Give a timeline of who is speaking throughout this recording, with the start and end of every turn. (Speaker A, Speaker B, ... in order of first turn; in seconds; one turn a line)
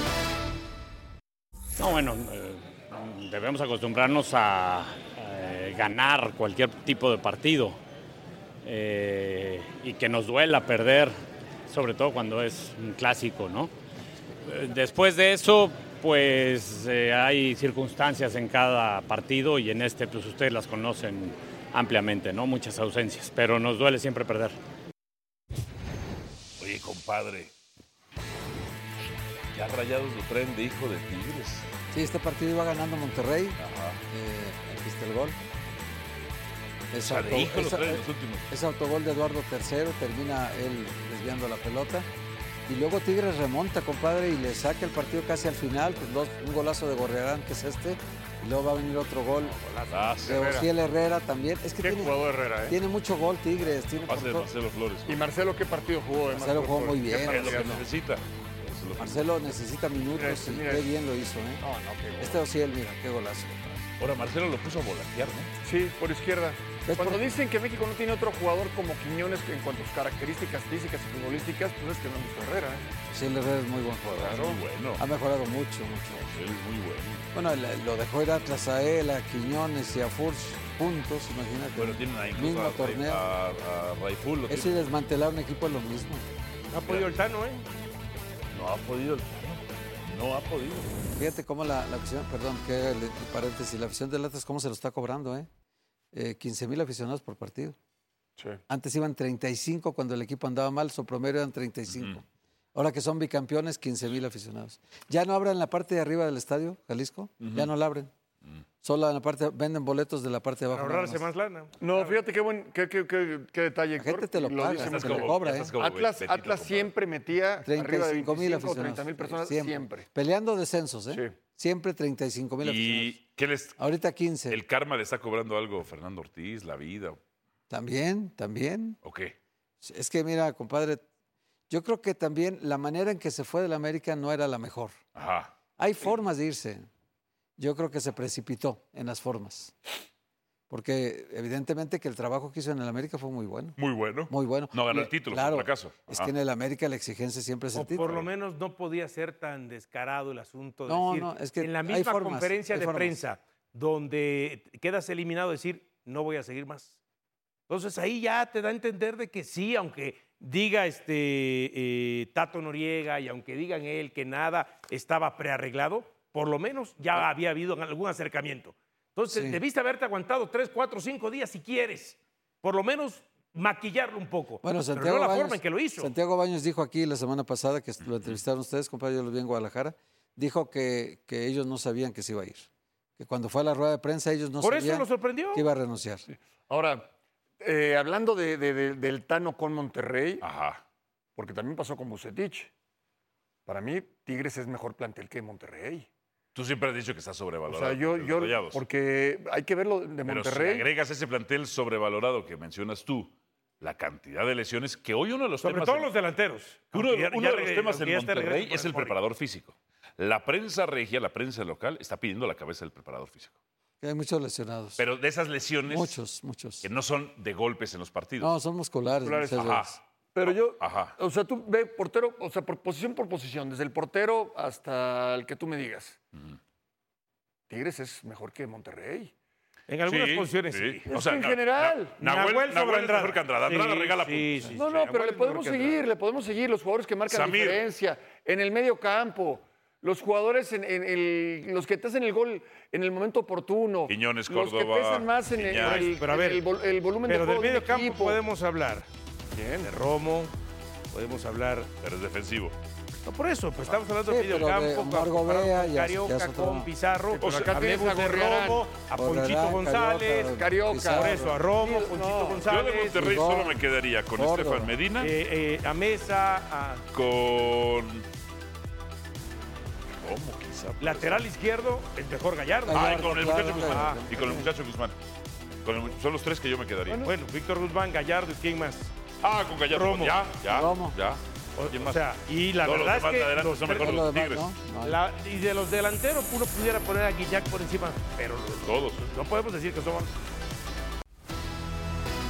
Speaker A: 1.8-7.8
Speaker A: 8.6-11.2
Speaker A: 11.7-13.7
Speaker A: 14.4-24.6
Speaker B: 26.6-27.5
Speaker B: 29.5-31.7
Speaker C: 31.9-33.6
Speaker B: 33.6-34.0
Speaker C: 34.1-35.4
Speaker C: 36.9-42.1
Speaker B: 37.0-38.5
Speaker C: 42.7-49.6
Speaker D: 49.4-50.2
Speaker B: 49.9-50.6
Speaker C: 50.2-54.5
Speaker E: 50.3-50.7
Speaker E: 51.8-52.8
Speaker B: 54.1-55.3
Speaker E: 55.1-57.8
Speaker C: 56.3-57.8
Speaker B: 57.2-59.2
Speaker C: 59.0-61.6
Speaker E: 60.2-60.9
Speaker E: 61.6-62.4
Speaker C: 62.2-63.9
Speaker B: 64.0-65.5
Speaker E: 65.6-72.8
Speaker C: 66.8-67.2
Speaker C: 73.1-76.3
Speaker B: 74.2-75.0
Speaker B: 76.2-77.2
Speaker C: 77.3-83.2
Speaker B: 81.8-84.9
Speaker C: 84.5-86.2
Speaker D: 86.7-87.7
Speaker B: 86.9-87.2
Speaker B: 88.5-91.0
Speaker C: 91.2-95.5
Speaker C: 96.1-97.8
Speaker C: 98.7-102.2
Speaker B: 101.9-102.2
Speaker C: 102.8-108.1
Speaker B: 107.4-107.7
Speaker C: 108.8-111.2
Speaker D: 110.7-112.2
Speaker E: 111.8-120.1
Speaker C: 114.0-115.7
Speaker B: 114.8-116.9
Speaker C: 117.6-123.2
Speaker B: 122.6-123.8
Speaker C: 123.8-124.6
Speaker B: 124.5-127.2
Speaker C: 127.7-129.0
Speaker B: 129.0-129.3
Speaker C: 129.8-131.0
Speaker C: 131.7-135.0
Speaker B: 135.2-135.5
Speaker C: 135.8-136.8
Speaker C: 137.6-139.8
Speaker C: 140.7-143.8
Speaker B: 143.8-146.3
Speaker C: 144.3-148.2
Speaker D: 147.7-157.0
Speaker B: 148.0-148.3
Speaker C: 150.9-153.2
Speaker D: 157.7-176.1
Speaker C: 169.3-169.6
Speaker C: 174.6-182.7
Speaker C: 183.2-186.3
Speaker D: 184.6-185.7
Speaker E: 186.7-187.1
Speaker E: 187.6-190.4
Speaker B: 190.4-190.8
Speaker E: 191.4-192.7
Speaker E: 193.7-196.1
Speaker B: 196.6-198.8
Speaker E: 197.7-200.9
Speaker B: 200.2-206.1
Speaker D: 205.6-209.2
Speaker B: 206.9-213.5
Speaker C: 214.0-215.0
Speaker B: 215.0-216.2
Speaker C: 215.9-216.9
Speaker B: 216.8-218.5
Speaker C: 218.4-220.0
Speaker E: 219.2-219.7
Speaker B: 219.5-221.2
Speaker E: 220.3-226.2
Speaker E: 227.7-229.3
Speaker D: 229.9-231.0
Speaker B: 230.1-234.9
Speaker E: 231.1-232.2
Speaker D: 232.2-236.0
Speaker E: 234.8-248.4
Speaker B: 237.3-237.8
Speaker B: 244.1-246.2
Speaker D: 245.8-246.6
Speaker D: 247.3-249.1
Speaker E: 249.5-249.9
Speaker D: 249.8-250.5
Speaker D: 251.1-251.9
Speaker B: 252.0-252.8
Speaker D: 253.2-260.6
Speaker C: 254.3-256.9
Speaker E: 257.3-258.9
Speaker B: 257.4-257.7
Speaker C: 259.1-261.5
Speaker E: 260.5-262.7
Speaker D: 261.1-263.3
Speaker B: 262.7-265.3
Speaker C: 263.1-263.9
Speaker C: 264.4-264.9
Speaker D: 265.2-267.1
Speaker B: 267.1-268.2
Speaker B: 270.2-271.4
Speaker D: 271.0-274.2
Speaker C: 272.9-274.7
Speaker B: 272.9-275.1
Speaker B: 275.9-277.3
Speaker D: 277.2-279.1
Speaker B: 279.4-282.2
Speaker D: 279.9-280.4
Speaker C: 280.7-281.2
Speaker D: 281.8-284.2
Speaker B: 282.8-284.7
Speaker C: 283.9-285.2
Speaker D: 285.0-290.4
Speaker B: 288.8-289.3